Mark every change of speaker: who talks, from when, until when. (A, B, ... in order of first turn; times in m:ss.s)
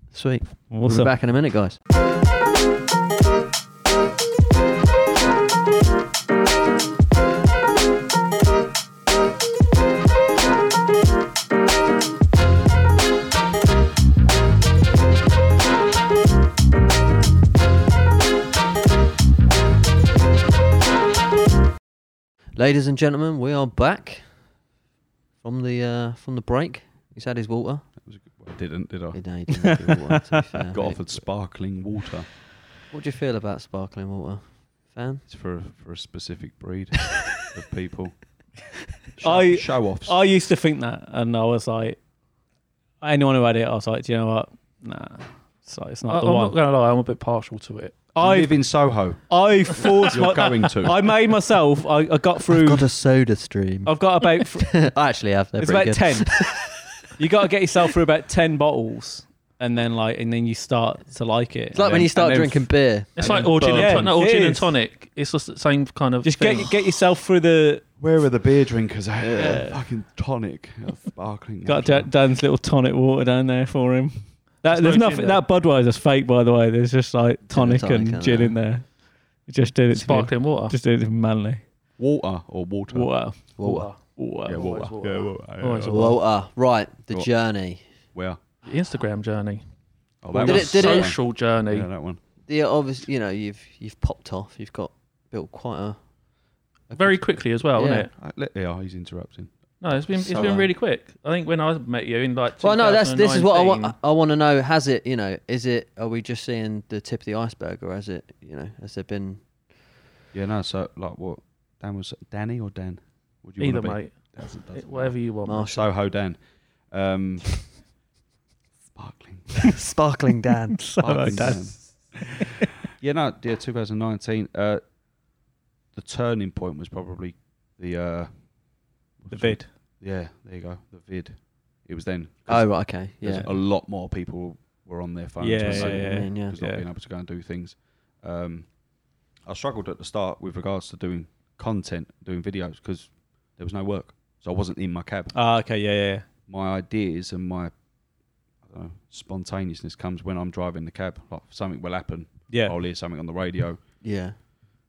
0:00.1-0:01.8 A
0:00.7-0:01.1 B
0:22.6-0:24.4 A
0:25.4-0:27.9 A
0:28.0-0:29.2 C
0:29.1-0:31.2 A
0:30.7-0:32.3 C
0:32.9-0:35.2 A
0:35.3-0:38.2 C
0:39.1-0:40.2 C
0:39.2-0:42.0 B
0:43.0-0:46.6 B
0:46.1-0:48.0 D
0:48.2-0:48.6 B
0:48.2-0:51.0 C
0:49.3-0:52.9 B
0:52.5-0:56.9 A
0:53.8-0:54.9 B
0:55.6-1:01.9 B
1:01.7-1:03.1 A
1:01.7-1:04.1 C
1:03.2-1:06.7 D
1:03.7-1:04.7 B
1:06.2-1:07.8 B
1:08.0-1:12.1 C
1:09.2-1:09.7 A
1:09.4-1:09.8 B
1:11.6-1:21.6 B
1:14.7-1:15.4 D
1:17.5-1:18.6 A
1:19.9-1:20.7 D
1:22.0-1:23.2 C
1:22.9-1:24.8 B
1:23.6-1:23.9 A
1:23.6-1:26.2 D
1:24.4-1:26.0 C
1:25.9-1:27.8 A
1:28.1-1:28.4 C
1:28.6-1:29.6 D
1:30.2-1:32.2 C
1:30.3-1:31.9 D
1:30.4-1:31.1 A
1:32.5-1:36.0 A
1:36.9-1:38.1 D
1:37.7-1:38.1 A
1:38.1-1:39.5 C
1:39.8-1:44.0 D
1:40.1-1:40.7 C
1:40.3-1:40.6 A
1:42.6-1:49.4 A
1:50.3-1:56.4 C
1:53.6-1:55.8 D
1:55.4-1:55.8 A
1:56.9-1:57.7 C
1:58.9-1:59.7 C
1:59.6-2:01.6 A
2:00.8-2:02.6 B
2:01.0-2:02.2 C
2:02.9-2:04.8 C
2:05.9-2:08.3 C
2:09.2-2:18.7 C
2:09.3-2:09.7 B
2:12.5-2:13.5 A
2:15.4-2:16.8 B
2:15.6-2:16.5 A
2:19.4-2:25.3 C
2:25.3-2:26.2 B
2:26.5-2:27.7 C
2:28.6-2:33.8 C
2:32.5-2:32.7 B
2:34.0-2:34.4 A